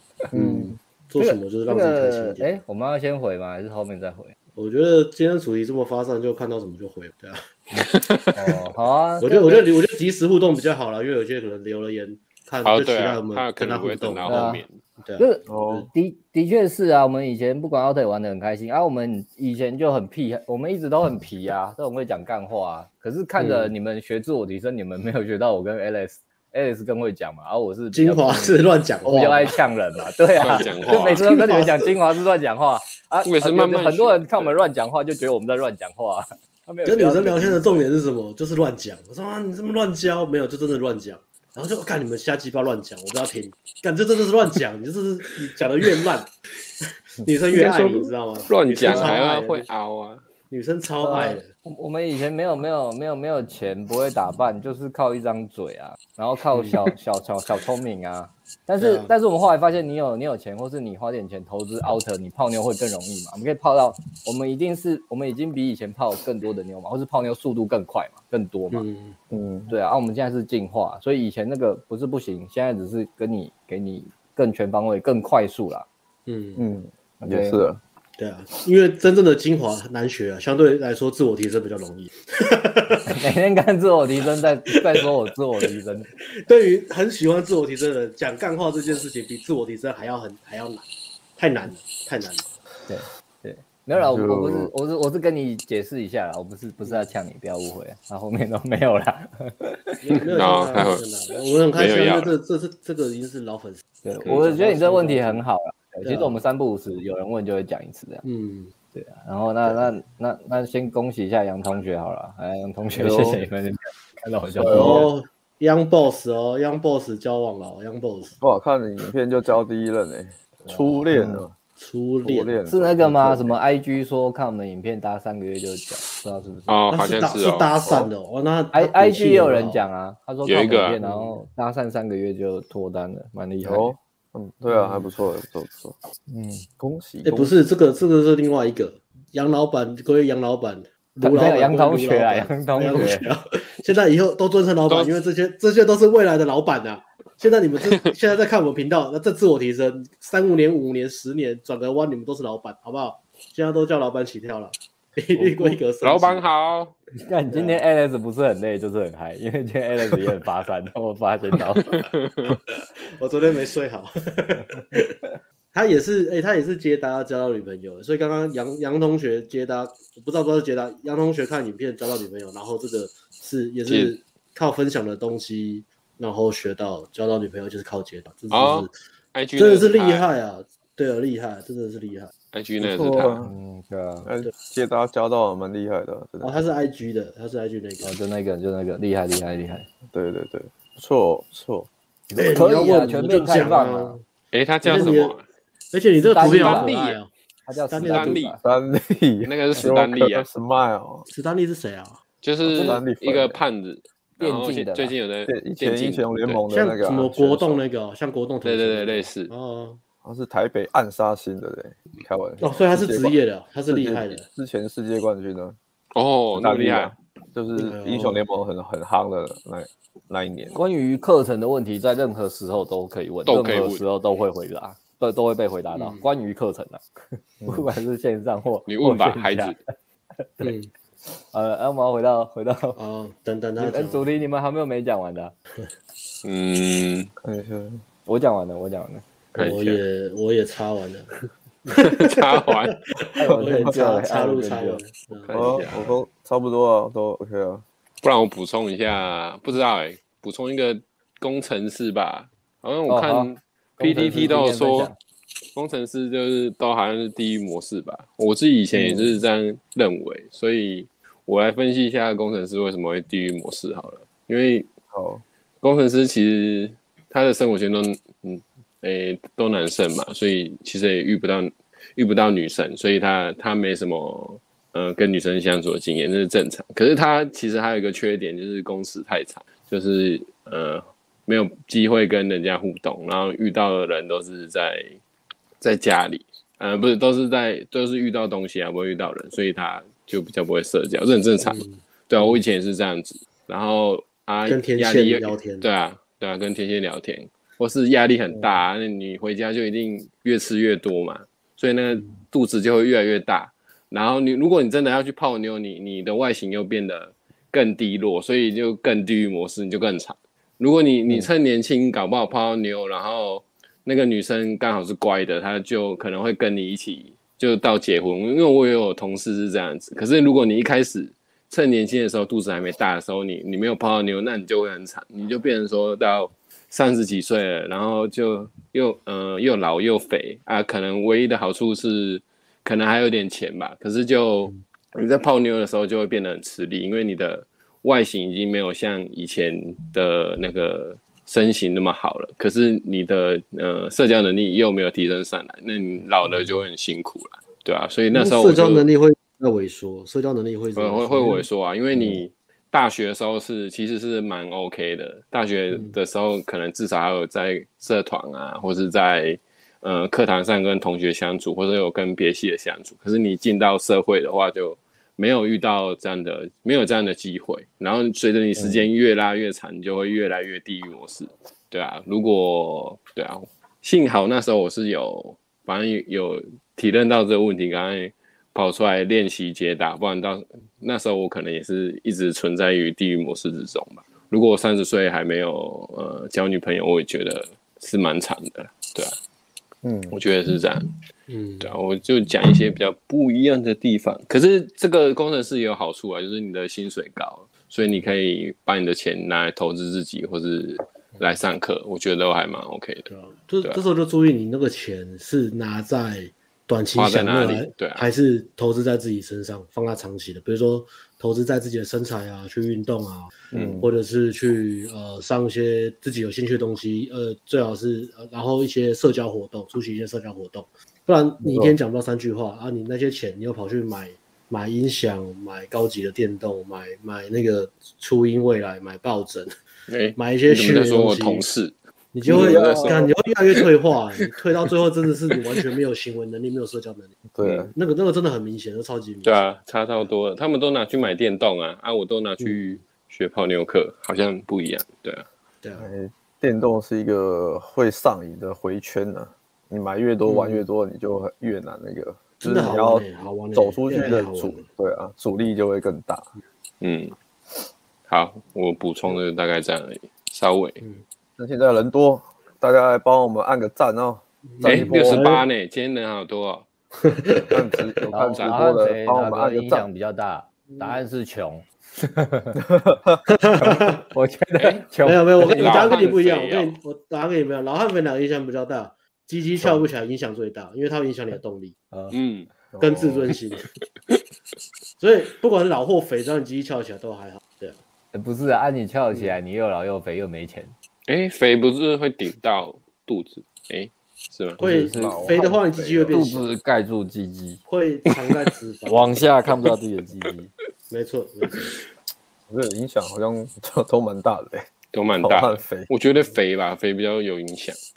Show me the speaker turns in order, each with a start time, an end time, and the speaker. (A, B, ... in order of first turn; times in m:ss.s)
0:00.3-0:02.6 A
0:00.3-0:00.7 B
0:01.2-0:04.3 C
0:04.6-0:07.4 A
0:07.8-0:09.6 C
0:07.8-0:08.3 D
0:09.2-0:15.9 A
0:12.6-0:14.8 D
0:14.3-0:14.6 C
0:15.2-0:37.8 C
0:15.5-0:15.9 B
0:23.4-0:23.7 A
0:27.9-0:29.6 A
0:30.4-0:31.3 D
0:30.5-0:31.9 A
0:33.2-0:34.6 D
0:36.8-0:46.3 A
0:47.2-0:49.7 A
0:47.5-0:50.2 D
0:48.8-0:49.2 C
0:50.5-0:51.5 A
0:51.0-1:08.8 C
0:58.8-0:59.1 A
1:08.7-1:09.2 A
1:09.3-1:09.7 B
1:09.7-1:15.9 C
1:16.2-1:16.6 A
1:16.6-1:17.8 B
1:17.2-1:17.6 C
1:18.2-1:23.2 A
1:23.1-1:26.1 C
1:26.4-1:30.8 A
1:31.4-1:32.4 A
1:32.9-1:40.0 C
1:33.9-1:34.7 B
1:40.0-1:45.4 A
1:40.2-1:41.0 D
1:41.7-1:42.3 D
1:44.0-1:48.2 C
1:46.0-1:46.4 A
1:48.2-1:48.7 A
1:48.9-1:55.1 C
1:52.9-1:53.4 B
1:54.6-1:55.1 B
1:54.6-1:58.4 A
1:58.4-2:01.5 B
2:00.7-2:01.4 C
2:01.8-2:02.6 A
2:02.2-2:03.6 B
2:02.7-2:06.7 C
2:06.7-2:07.7 D
2:06.9-2:09.8 A
2:08.7-2:13.9 C
2:10.4-2:11.0 D
2:11.0-2:11.3 A
2:13.6-2:16.0 B
2:16.3-2:16.6 C
2:16.8-2:17.5 B
2:17.2-2:36.4 A
2:21.2-2:23.3 C
2:24.9-2:25.1 D
2:35.4-2:35.7 C
2:36.0-2:36.9 D
2:37.2-2:42.0 C
2:37.5-2:37.8 A
2:41.9-2:42.5 D
2:43.2-2:45.1 A
2:45.7-2:58.9 A
2:53.8-2:54.1 D
2:58.5-3:00.3 D
2:59.6-3:02.3 A
3:02.5-3:03.4 D
3:02.8-3:03.5 B
3:03.4-3:04.3 C
3:04.2-3:06.6 B
3:06.4-3:08.1 A
3:08.0-3:09.9 C
3:10.1-3:11.9 B
3:12.3-3:14.2 C
3:12.3-3:14.2 A
3:14.5-3:15.4 D
3:14.8-3:15.3 A
3:15.9-3:17.3 A
3:16.2-3:18.6 C
3:16.4-3:17.2 D
3:17.9-3:18.4 A
3:18.0-3:18.6 D
3:18.6-3:21.2 B
3:19.4-3:20.4 D
3:21.3-3:22.2 A
3:22.4-3:26.6 D
3:22.6-3:23.6 B
3:22.7-3:23.0 C
3:24.4-3:25.1 C
3:25.4-3:27.8 B
3:26.7-3:30.0 A
3:28.6-3:29.5 D
3:30.2-3:35.8 B
3:32.6-3:34.4 A
3:36.1-3:37.1 D
3:36.5-3:40.8 B
3:37.8-3:38.4 A
3:40.7-3:47.0 C
3:43.5-3:44.0 D
3:45.9-3:46.2 A
3:47.6-3:47.9 B
3:47.6-3:49.8 C
3:48.9-3:49.8 D
3:50.6-3:50.9 A
3:51.5-3:53.0 C
3:53.0-3:54.3 A
3:53.8-3:55.5 C
3:56.4-3:57.3 D
3:57.4-3:58.0 B
3:58.2-3:59.2 C
3:59.5-4:00.0 D
3:59.5-4:01.3 A
4:01.9-4:05.6 A
4:02.0-4:03.0 D
4:03.3-4:05.0 C
4:03.5-4:04.0 B
4:05.4-4:06.1 D
4:05.5-4:07.8 B
4:08.2-4:15.1 D
4:13.1-4:15.2 C
4:15.7-4:24.9 D
4:18.9-4:19.3 B
4:25.1-4:25.4 B
4:25.8-4:45.2 D
4:45.8-5:49.0 D
4:51.6-4:52.0 A
4:54.6-4:55.8 A
5:48.3-5:51.6 A
5:51.0-6:29.4 D
6:08.8-6:09.0 B
6:30.0-6:30.4 B
6:30.3-6:31.1 D
6:31.5-6:31.9 A
6:31.8-6:43.3 D
6:43.3-7:09.7 A
6:47.1-6:48.2 D
6:53.7-6:54.1 B
6:53.7-6:54.0 D
7:01.6-7:02.0 B
7:10.1-7:11.9 D
7:10.4-7:11.6 A
7:12.3-7:17.3 A
7:12.4-7:13.3 B
7:12.4-7:13.8 D
7:17.5-7:17.9 B
7:17.6-7:17.9 D
7:17.9-7:19.6 A
7:19.4-7:25.4 D
7:25.8-7:26.1 A
7:26.0-7:36.5 B
7:30.4-7:30.8 A
7:32.6-7:34.8 A
7:37.0-7:37.4 D
7:38.3-7:41.0 D
7:41.6-7:45.5 B
7:44.7-7:45.6 A
7:44.8-7:46.8 D
7:47.2-7:47.8 A
7:47.6-7:50.0 B
7:48.3-7:52.8 C
7:48.5-7:48.8 D
7:50.9-7:51.2 A
7:52.9-7:53.9 B
7:53.5-7:54.2 A
7:54.3-7:56.2 C
7:54.8-7:55.1 D
7:55.2-8:01.9 A
7:55.6-7:57.0 D
7:59.8-8:00.0 B
8:02.1-8:02.4 C
8:02.3-8:02.7 D
8:02.9-8:03.5 B
8:03.0-8:03.8 A
8:05.2-8:08.0 A
8:08.3-8:10.9 C
8:11.3-8:14.8 D
8:14.8-8:15.8 C
8:14.8-8:16.6 A
8:14.8-8:16.4 B
8:16.3-8:17.8 C
8:17.9-8:19.4 A
8:19.1-8:20.7 C
8:21.1-8:22.0 A
8:22.7-8:24.8 B
8:25.1-8:28.0 D
8:25.4-8:26.1 B